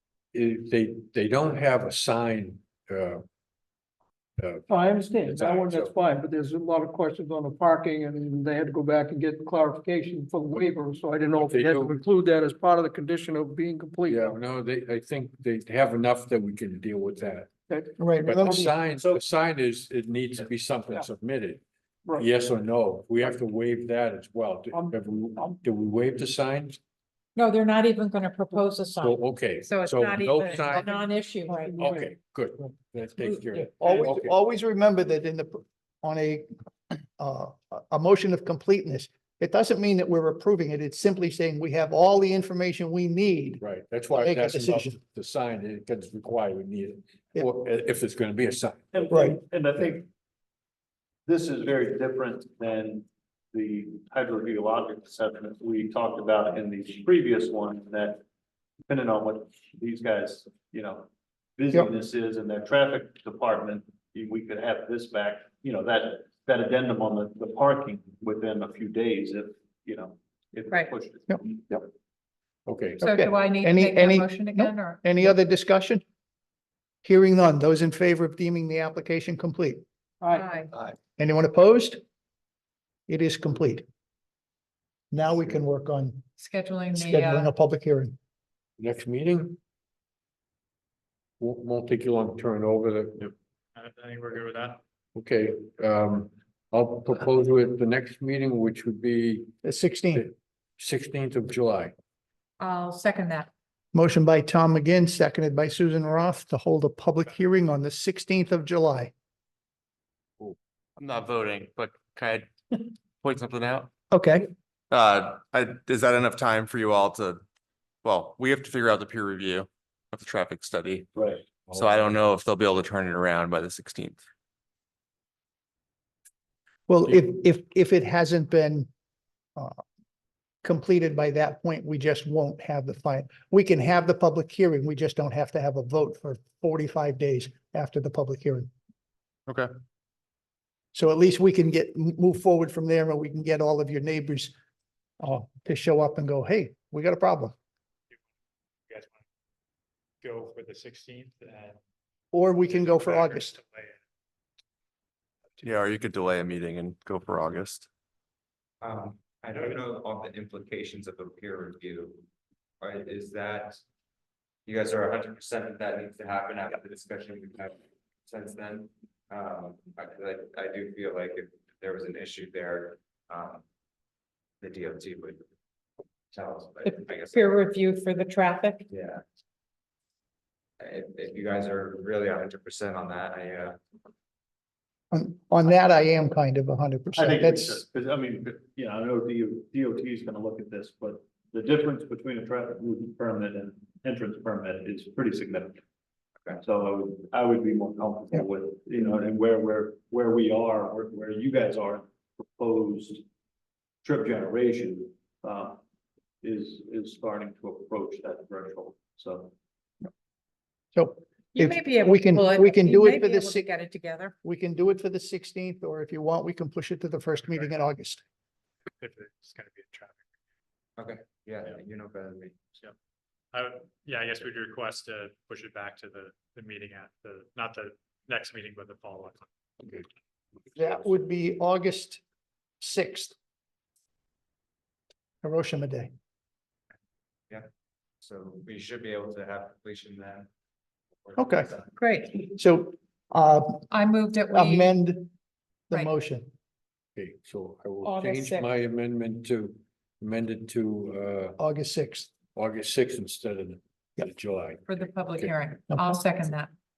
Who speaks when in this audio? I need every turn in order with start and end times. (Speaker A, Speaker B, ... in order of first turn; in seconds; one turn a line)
Speaker A: 0.3-3.2
Speaker A: 4.4-4.7
Speaker B: 4.7-14.3
Speaker A: 5.2-5.9
Speaker A: 11.4-12.0
Speaker A: 14.1-17.5
Speaker B: 17.7-18.7
Speaker C: 18.0-18.6
Speaker A: 18.2-21.6
Speaker A: 22.1-26.8
Speaker B: 24.7-25.6
Speaker D: 27.4-31.8
Speaker A: 29.0-31.0
Speaker B: 31.5-32.1
Speaker A: 31.8-34.3
Speaker D: 33.2-33.6
Speaker C: 33.8-36.5
Speaker C: 37.0-43.6
Speaker A: 43.6-48.9
Speaker C: 44.2-44.9
Speaker E: 48.9-50.0
Speaker C: 49.1-49.4
Speaker E: 51.2-58.2
Speaker E: 58.9-71.5
Speaker C: 71.3-71.8
Speaker A: 72.7-73.1
Speaker D: 73.0-75.1
Speaker C: 73.0-76.0
Speaker C: 77.0-79.8
Speaker B: 80.2-80.5
Speaker D: 80.3-80.7
Speaker C: 81.2-82.0
Speaker C: 83.1-83.8
Speaker C: 85.1-86.2
Speaker D: 86.4-87.5
Speaker C: 86.9-88.2
Speaker A: 88.8-89.6
Speaker A: 91.4-93.3
Speaker F: 93.8-94.8
Speaker A: 95.1-99.5
Speaker C: 99.6-100.3
Speaker A: 100.1-101.9
Speaker D: 102.6-103.5
Speaker C: 103.9-109.1
Speaker G: 111.0-112.5
Speaker G: 113.2-113.9
Speaker C: 114.1-114.5
Speaker G: 114.9-117.4
Speaker G: 118.0-121.1
Speaker E: 121.2-121.4
Speaker G: 121.7-124.2
Speaker C: 126.9-128.9
Speaker C: 130.6-138.7
Speaker C: 140.9-144.5
Speaker C: 145.2-147.5
Speaker F: 148.9-149.2
Speaker F: 150.2-151.8
Speaker C: 152.3-153.6
Speaker F: 152.7-154.0
Speaker G: 155.6-157.9
Speaker H: 158.8-162.2
Speaker H: 162.8-163.8
Speaker H: 164.7-167.7
Speaker H: 168.2-173.6
Speaker H: 174.6-175.4
Speaker H: 176.3-177.5
Speaker D: 176.8-178.9
Speaker H: 178.9-179.2
Speaker H: 180.8-183.8
Speaker C: 185.1-187.8
Speaker E: 187.1-195.8
Speaker E: 196.6-203.2
Speaker E: 204.0-205.8
Speaker E: 206.4-209.5
Speaker C: 210.9-213.7
Speaker D: 211.5-214.3
Speaker C: 214.4-218.2
Speaker F: 219.0-220.2
Speaker H: 221.0-222.5
Speaker F: 223.5-229.5
Speaker C: 230.7-232.2
Speaker C: 232.8-233.3
Speaker C: 235.4-236.1
Speaker H: 238.2-240.5
Speaker H: 241.2-241.9
Speaker C: 241.4-241.7
Speaker D: 241.9-242.5
Speaker C: 242.3-243.9
Speaker D: 243.9-245.0
Speaker C: 244.5-245.3
Speaker C: 245.9-246.5
Speaker A: 247.2-251.6
Speaker D: 248.0-248.7
Speaker C: 251.6-252.3
Speaker A: 252.5-255.5
Speaker D: 254.9-256.7
Speaker C: 255.9-256.2